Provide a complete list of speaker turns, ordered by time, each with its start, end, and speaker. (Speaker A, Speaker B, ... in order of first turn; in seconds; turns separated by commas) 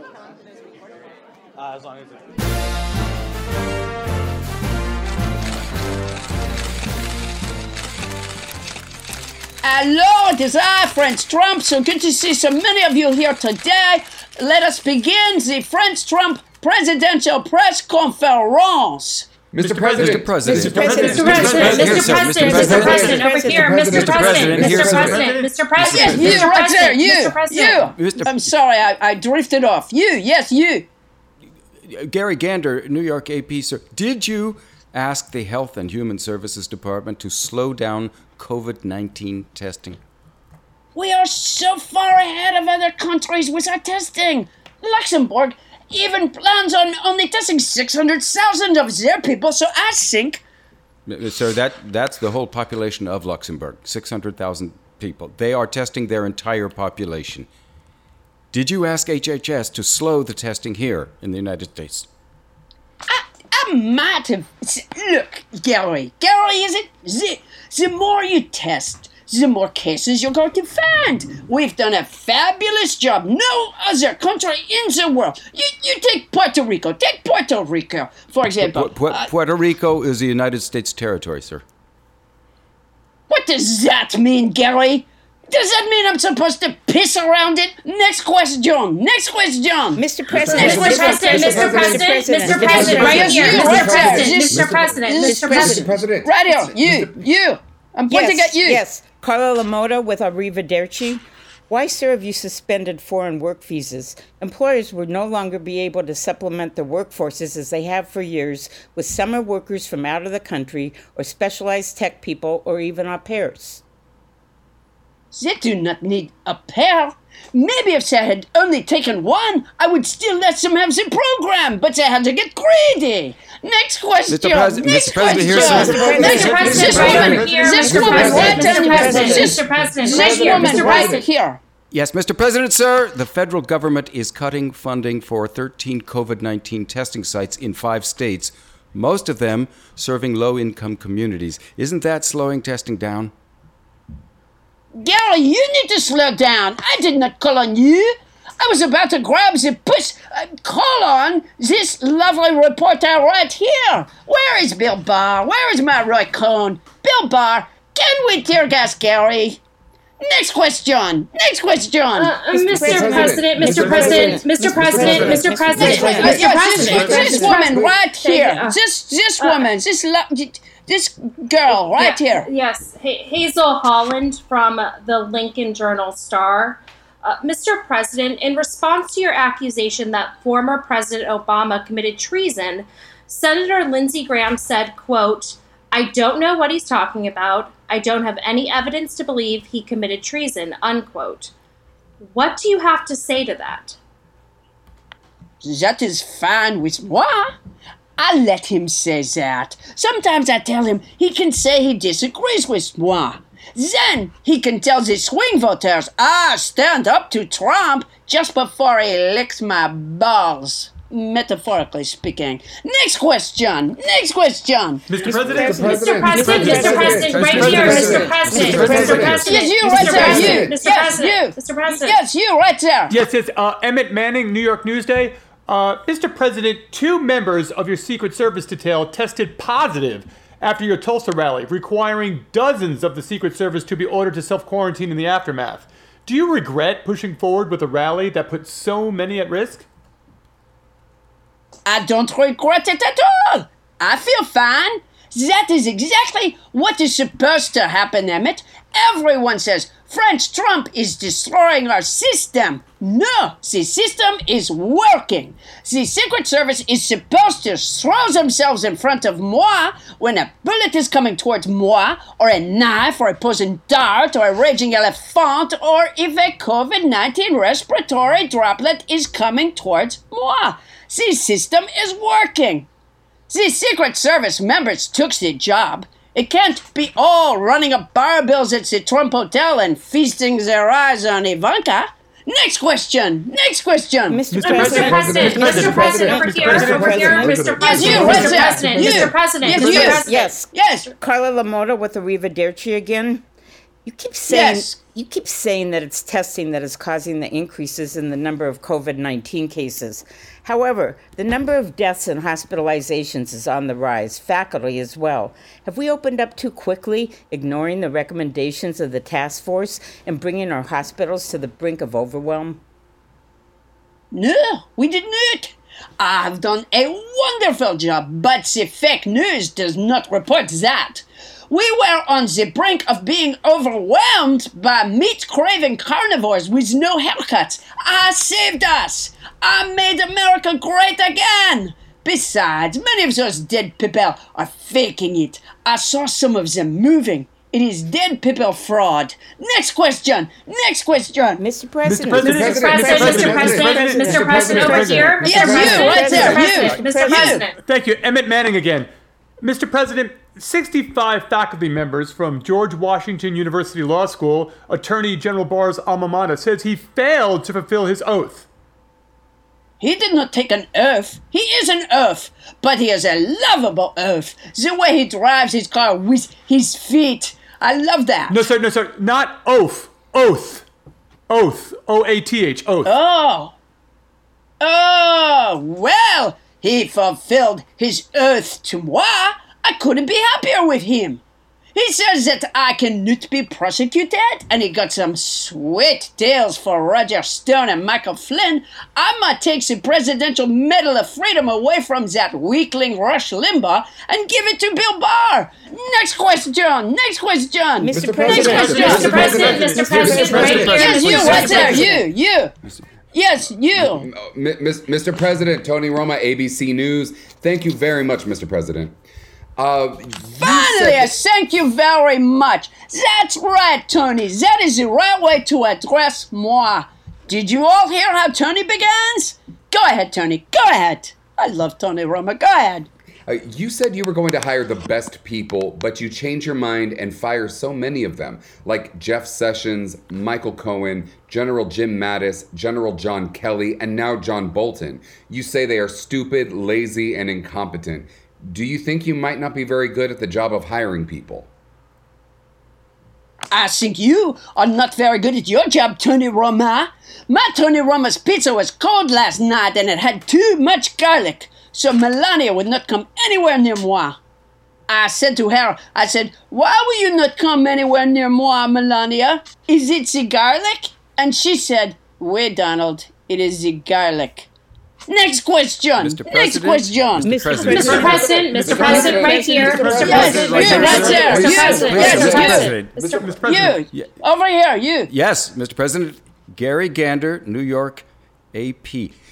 Speaker A: 9.6-19.3, Speaker B: 19.5-20.3, Speaker C: 19.6-23.4, Speaker D: 19.9-23.2, Speaker E: 20.5-25.1, Speaker F: 21.0-27.8, Speaker B: 22.5-23.0, Speaker B: 23.7-25.2, Speaker D: 23.9-24.9, Speaker C: 24.6-25.5, Speaker D: 25.8-26.5, Speaker A: 25.8-30.9, Speaker B: 25.9-26.4, Speaker D: 27.9-28.4, Speaker D: 31.9-40.0, Speaker A: 40.9-50.4, Speaker D: 51.1-57.5, Speaker D: 58.5-62.1, Speaker A: 63.1-79.3, Speaker D: 78.6-81.6, Speaker A: 83.3-91.6, Speaker E: 89.9-94.3, Speaker B: 90.4-95.0, Speaker F: 90.4-95.8, Speaker A: 92.5-98.8, Speaker E: 95.2-96.0, Speaker B: 95.5-97.2, Speaker E: 98.1-113.8, Speaker A: 115.3-131.6, Speaker D: 124.3-127.4, Speaker E: 125.5-130.4, Speaker C: 125.5-127.5, Speaker F: 126.0-131.2, Speaker B: 127.2-128.6, Speaker D: 128.2-129.2, Speaker D: 131.9-143.3, Speaker A: 144.9-159.6, Speaker A: 160.2-162.3, Speaker F: 162.1-168.8, Speaker E: 162.5-167.6, Speaker C: 163.4-166.2, Speaker A: 163.7-164.3, Speaker A: 165.3-172.5, Speaker B: 165.8-167.7, Speaker C: 166.8-167.3, Speaker F: 169.4-169.7, Speaker F: 171.7-191.5, Speaker F: 192.2-194.0, Speaker A: 195.6-197.5, Speaker A: 198.2-215.1, Speaker C: 215.1-215.7, Speaker E: 215.2-219.3, Speaker B: 215.6-218.1, Speaker F: 215.9-222.2, Speaker C: 216.4-219.0, Speaker D: 216.5-219.5, Speaker B: 218.8-219.4, Speaker A: 219.3-223.2, Speaker E: 219.8-220.6, Speaker B: 220.1-220.7, Speaker C: 223.1-239.9, Speaker A: 241.8-272.9, Speaker A: 273.5-285.0, Speaker E: 284.3-289.3, Speaker C: 284.5-290.2, Speaker F: 284.7-290.5, Speaker B: 285.0-288.4, Speaker A: 287.8-291.1, Speaker E: 289.8-293.4, Speaker E: 294.0-312.8, Speaker A: 294.5-294.9, Speaker A: 314.3-341.6, Speaker E: 341.6-347.6, Speaker C: 342.0-345.4, Speaker B: 342.4-344.9, Speaker F: 342.7-347.8, Speaker A: 345.4-347.6, Speaker B: 345.4-346.0, Speaker C: 346.0-347.3, Speaker C: 347.8-349.1, Speaker C: 349.6-358.7, Speaker A: 360.0-368.6, Speaker C: 368.5-370.8, Speaker C: 371.5-373.1, Speaker A: 373.0-373.7, Speaker A: 374.8-381.4, Speaker A: 381.9-402.7, Speaker E: 398.0-402.2, Speaker B: 398.1-400.9, Speaker F: 398.5-402.1, Speaker C: 399.1-402.0, Speaker A: 403.3-404.3, Speaker B: 403.9-409.1, Speaker B: 409.8-411.3, Speaker A: 410.6-423.1, Speaker B: 423.5-441.7, Speaker A: 443.7-454.4, Speaker A: 455.1-464.7, Speaker A: 465.3-467.6, Speaker D: 466.2-473.1, Speaker E: 467.4-471.3, Speaker F: 467.7-473.5, Speaker C: 468.0-469.1, Speaker B: 468.9-473.4, Speaker C: 469.8-472.1, Speaker A: 470.1-473.0, Speaker C: 472.8-474.0, Speaker A: 473.5-475.3, Speaker D: 475.3-479.3